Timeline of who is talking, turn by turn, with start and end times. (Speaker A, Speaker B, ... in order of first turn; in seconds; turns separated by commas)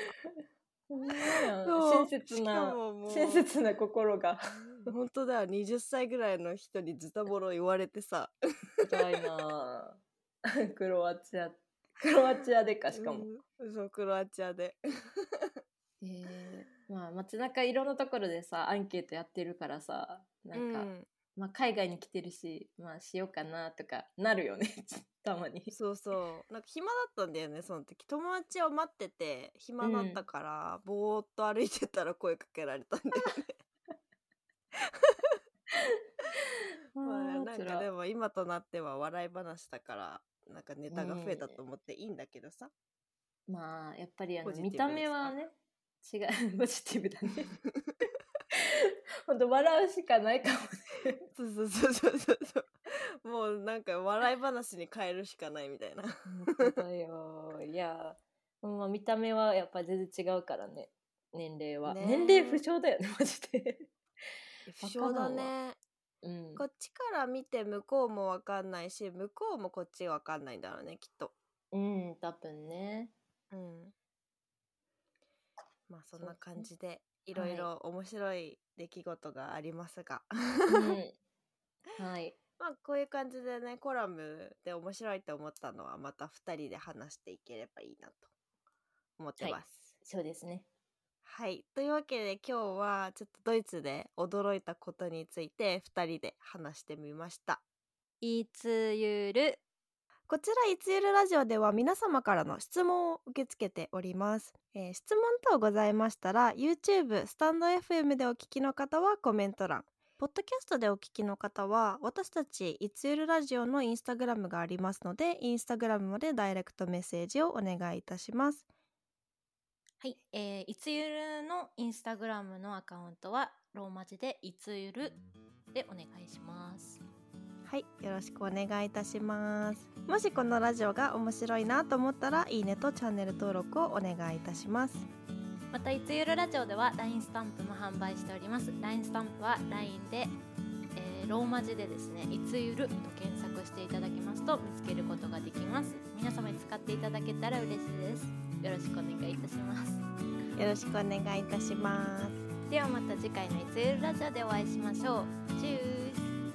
Speaker A: 0.9-4.9, Speaker B: 1.3-3.5, Speaker B: 4.7-8.9, Speaker A: 8.8-10.0, Speaker A: 10.7-13.3, Speaker B: 12.9-14.8, Speaker A: 16.0-25.7, Speaker B: 20.5-21.1, Speaker B: 25.7-33.5, Speaker A: 29.8-30.2, Speaker A: 37.0-37.9, Speaker B: 37.0-42.7, Speaker A: 40.9-41.5, Speaker A: 43.5-47.6, Speaker B: 44.4-45.4, Speaker A: 49.3-51.3, Speaker B: 51.4-56.8, Speaker A: 56.3-63.9, Speaker B: 61.9-62.6, Speaker B: 64.7-65.8, Speaker A: 64.8-65.5, Speaker A: 66.2-66.6, Speaker B: 66.6-71.3, Speaker A: 71.7-73.1, Speaker B: 73.5-73.9, Speaker B: 75.9-81.0, Speaker A: 76.2-76.7, Speaker A: 77.3-77.7, Speaker A: 80.7-81.2, Speaker A: 82.0-82.4, Speaker B: 82.6-88.3, Speaker B: 89.2-89.9, Speaker A: 89.4-90.7, Speaker B: 91.2-97.6, Speaker A: 98.2-99.6, Speaker B: 100.3-118.7, Speaker A: 120.0-125.2, Speaker A: 125.7-127.0, Speaker B: 127.7-135.1, Speaker A: 135.7-140.3, Speaker A: 140.9-150.1, Speaker B: 150.6-152.4, Speaker A: 152.7-156.3